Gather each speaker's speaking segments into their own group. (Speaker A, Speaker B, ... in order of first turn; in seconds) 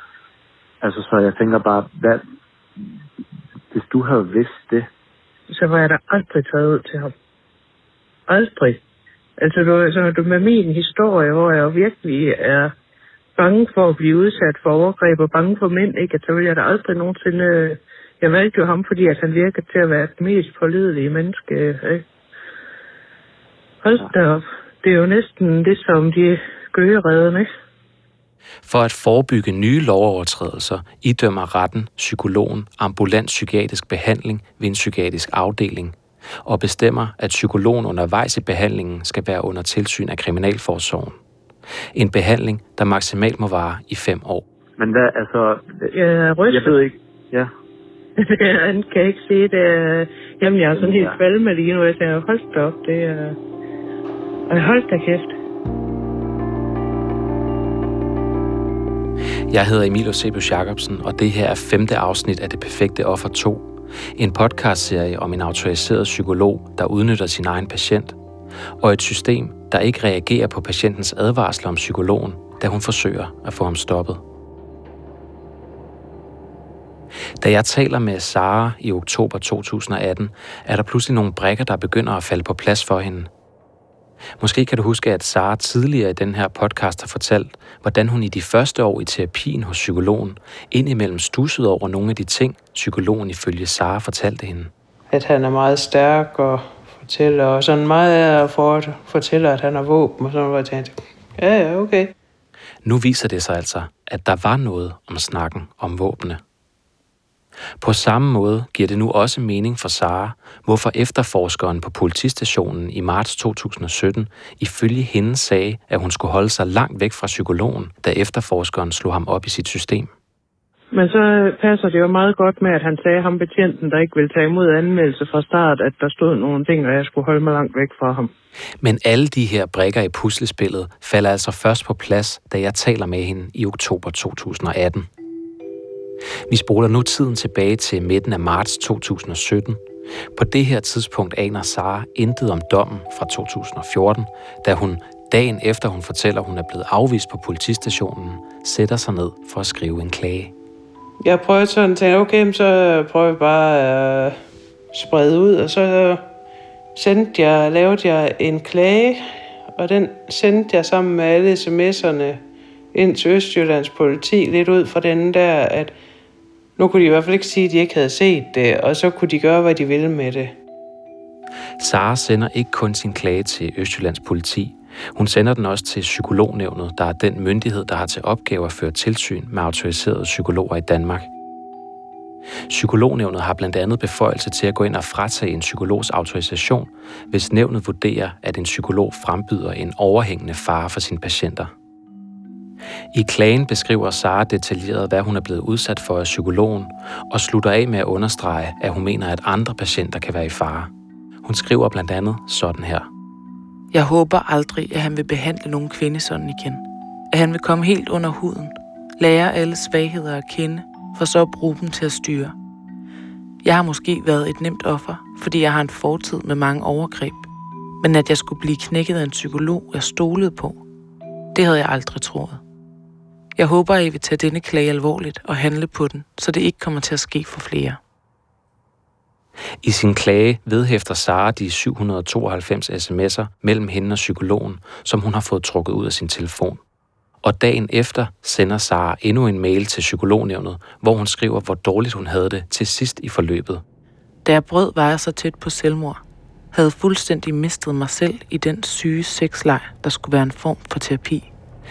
Speaker A: 0.8-2.2, 3.7-4.9, 44.8-45.9, 46.5-47.5, 50.7-51.2
Speaker B: 5.5-7.1, 8.3-8.8, 9.4-12.7, 13.3-22.0, 23.8-27.5, 45.9-46.8, 48.2-53.4, 54.5-55.3, 120.9-128.3
Speaker C: 28.6-41.2, 41.9-44.4, 59.5-68.2, 68.8-74.2, 77.4-83.3, 84.4-94.7, 102.8-106.4, 107.8-120.1, 128.8-135.1, 136.5-139.8, 140.3-150.5, 171.8-181.3, 182.7-191.7, 193.1-200.9, 201.4-203.1, 229.8-236.8, 237.4-243.8
Speaker D: 95.1-102.1, 151.2-154.4, 154.9-156.2, 156.9-159.2, 159.8-162.4, 162.9-165.9, 166.8-170.5
Speaker E: 203.9-212.5, 213.6-217.5, 218.0-220.8, 221.5-222.6, 223.6-228.0, 244.4-251.5